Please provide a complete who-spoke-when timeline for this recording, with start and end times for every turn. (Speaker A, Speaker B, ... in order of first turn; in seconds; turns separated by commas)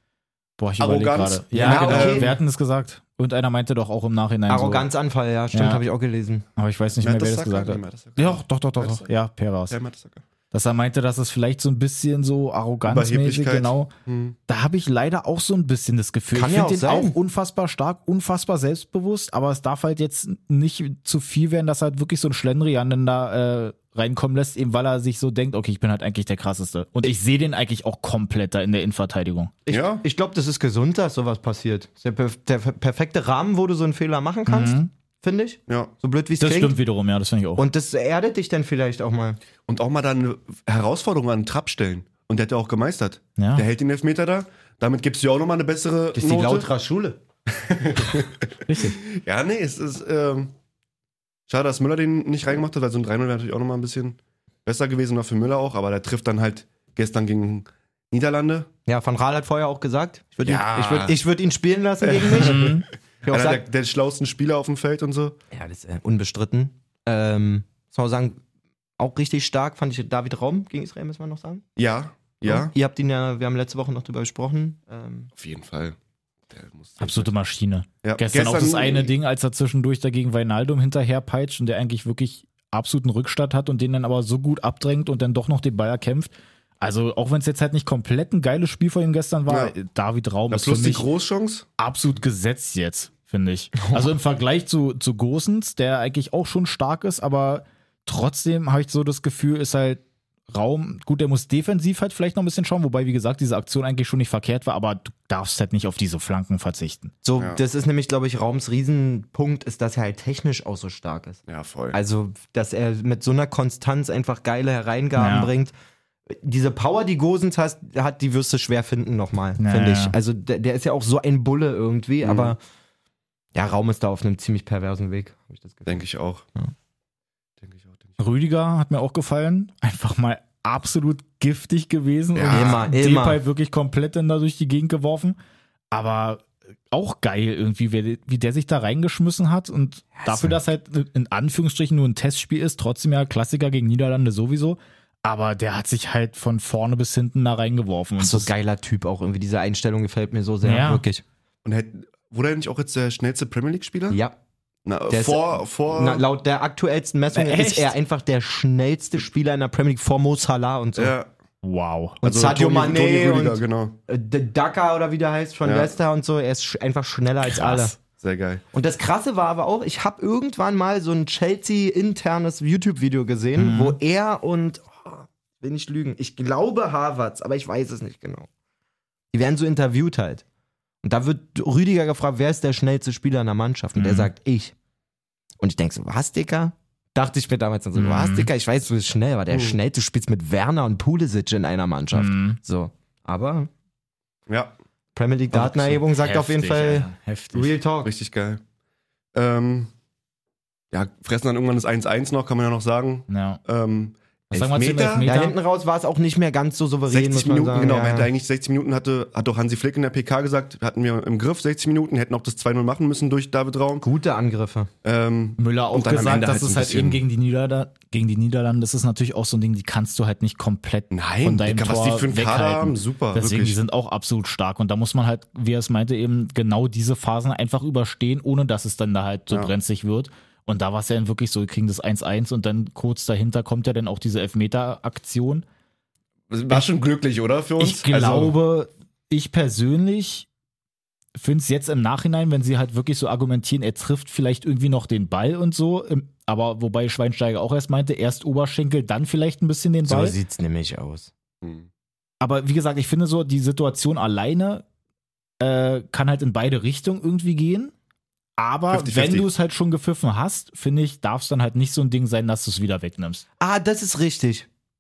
Speaker A: 0.6-4.9, Speaker B: 0.8-2.4, Speaker C: 1.5-2.4, Speaker C: 4.5-6.5, Speaker A: 5.5-5.8, Speaker A: 6.6-9.8, Speaker B: 7.0-9.1, Speaker B: 9.7-10.2, Speaker A: 10.5-13.9, Speaker B: 12.9-14.4, Speaker A: 14.5-29.6, Speaker C: 16.3-17.2, Speaker C: 29.7-36.8, Speaker B: 29.7-30.0, Speaker A: 34.5-34.9, Speaker A: 36.4-37.7, Speaker C: 37.6-39.4, Speaker B: 39.7-46.7, Speaker A: 43.4-43.6, Speaker C: 46.1-47.2, Speaker B: 47.6-50.5, Speaker A: 48.7-49.0, Speaker B: 51.5-58.7, Speaker C: 58.9-63.6, Speaker B: 60.5-61.1, Speaker B: 62.0-65.4, Speaker A: 62.4-62.9, Speaker C: 65.5-68.4, Speaker C: 69.0-71.6, Speaker B: 71.8-72.7, Speaker C: 72.5-75.3, Speaker B: 75.4-76.0, Speaker B: 76.5-77.3, Speaker A: 77.0-91.1, Speaker B: 78.0-79.1, Speaker B: 89.5-89.8, Speaker B: 90.5-91.7, Speaker A: 91.8-107.1, Speaker C: 93.8-94.0, Speaker C: 107.2-111.4, Speaker B: 111.5-112.0, Speaker C: 111.9-115.7, Speaker A: 115.2-115.5, Speaker C: 116.3-122.6, Speaker A: 119.6-120.2, Speaker B: 122.2-122.5, Speaker C: 123.5-126.0, Speaker B: 125.9-126.5, Speaker B: 127.6-128.2, Speaker A: 128.2-135.4, Speaker B: 132.3-132.8, Speaker C: 132.5-133.4, Speaker A: 135.9-148.5, Speaker C: 140.2-140.6, Speaker C: 148.2-151.2, Speaker A: 150.6-151.0, Speaker B: 151.7-154.2, Speaker C: 154.1-154.4, Speaker B: 154.9-156.2, Speaker C: 155.1-161.2, Speaker A: 157.3-157.9, Speaker B: 161.0-161.3, Speaker A: 161.6-162.2, Speaker B: 162.2-164.0, Speaker C: 162.2-168.0, Speaker B: 165.6-165.9, Speaker A: 167.4-167.9, Speaker B: 168.2-168.6, Speaker C: 168.7-178.5, Speaker A: 173.6-174.0, Speaker C: 179.3-180.4, Speaker C: 181.0-184.8, Speaker A: 184.0-184.3, Speaker C: 185.6-193.7, Speaker A: 187.9-188.5, Speaker B: 189.5-189.8, Speaker A: 192.1-192.6, Speaker C: 195.2-198.1, Speaker A: 195.5-197.8, Speaker B: 198.0-198.6, Speaker B: 199.3-199.9, Speaker B: 200.9-205.3, Speaker A: 203.3-203.6, Speaker A: 204.5-205.6, Speaker C: 205.2-208.3, Speaker B: 207.1-214.1, Speaker C: 214.0-214.9, Speaker B: 215.0-217.2, Speaker A: 215.6-235.7, Speaker B: 221.1-223.8, Speaker B: 236.5-238.6, Speaker A: 237.8-240.5, Speaker A: 241.4-250.4, Speaker C: 250.1-251.3, Speaker B: 251.6-251.9, Speaker A: 252.4-254.8, Speaker A: 255.6-257.9, Speaker A: 258.6-263.4, Speaker B: 258.9-259.5, Speaker C: 263.6-264.7